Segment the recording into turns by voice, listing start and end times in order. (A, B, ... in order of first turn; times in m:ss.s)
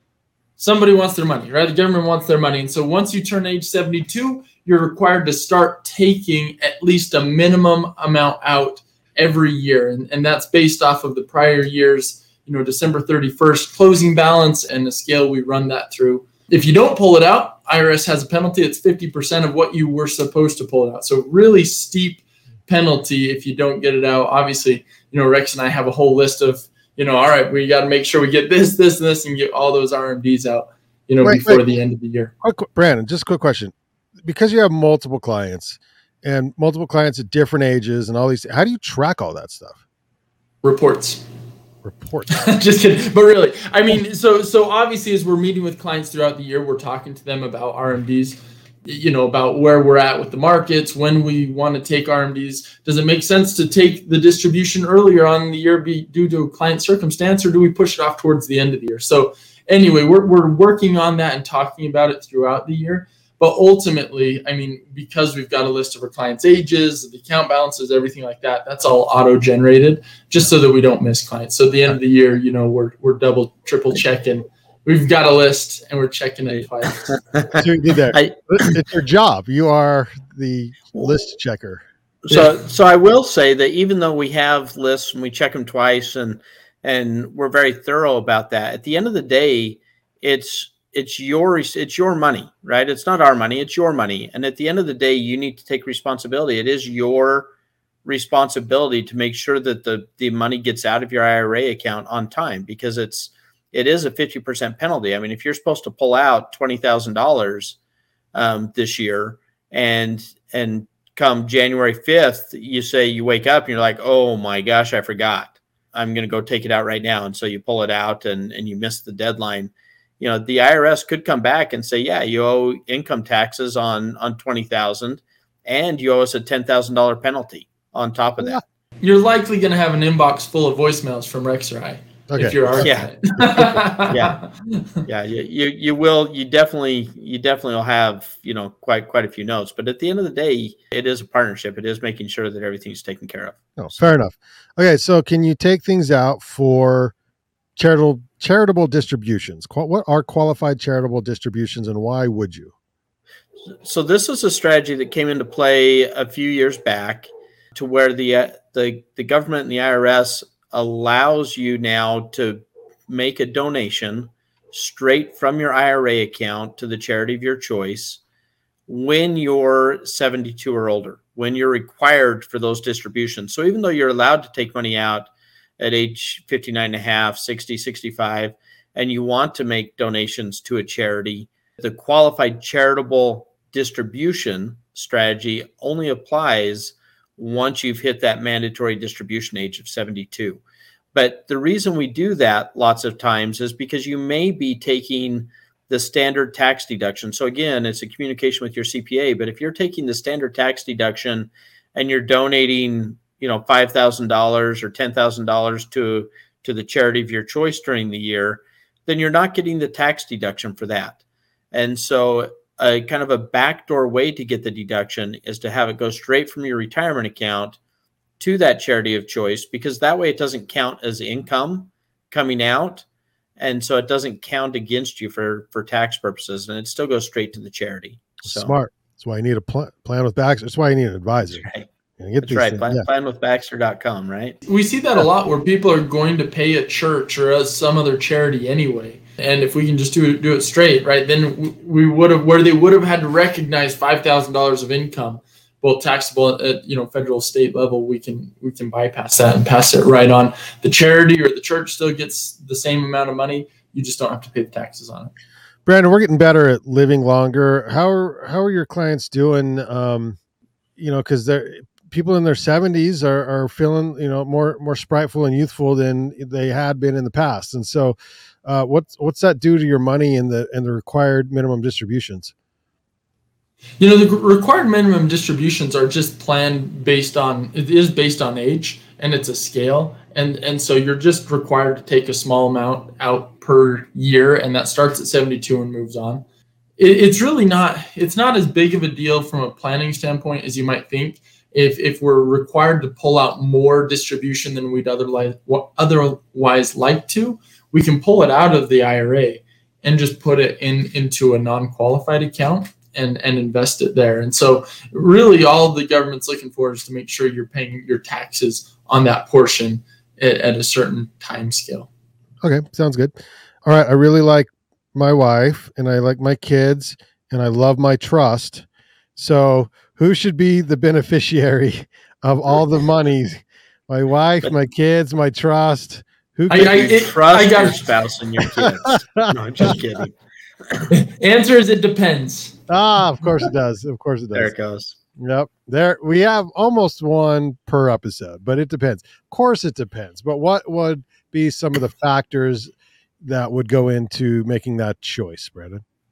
0:00.6-0:32.3 A
0:31.2-0:31.6 B
0:32.4-0:39.8 B
0:40.6-0:41.2 A
0:41.8-0:42.5 B
0:42.3-1:17.1 A
1:16.6-1:18.7 C
1:17.5-1:21.8 B
1:22.2-1:37.5 C
1:38.0-1:47.8 C
1:48.3-2:08.6 C
2:09.0-2:14.8 A
2:12.3-2:13.8 B
2:12.8-2:14.4 C
2:15.0-2:24.0 C
2:23.8-2:27.1 B
2:27.8-2:32.7 B
2:33.8-2:48.2 C
2:48.9-3:10.6 C
3:11.1-3:31.2 C
3:31.7-3:37.8 C
3:38.4-3:43.0 C
3:43.6-3:48.7 C
3:48.4-3:51.6 B
3:51.5-3:51.9 C
3:52.2-3:53.0 B
3:52.4-3:54.6 C
3:54.6-4:15.3 A
4:15.8-4:20.4 B
4:21.0-4:32.5 B
4:34.0-4:46.4 A
4:47.0-5:12.1 A
5:12.6-5:18.8 B
5:19.4-5:27.2 B
5:26.7-5:28.0 A
5:26.8-5:30.3 C
5:28.8-5:29.9 B
5:31.1-5:32.8 A
5:32.9-5:34.7 B
5:34.5-5:35.2 C
5:35.4-5:46.0 B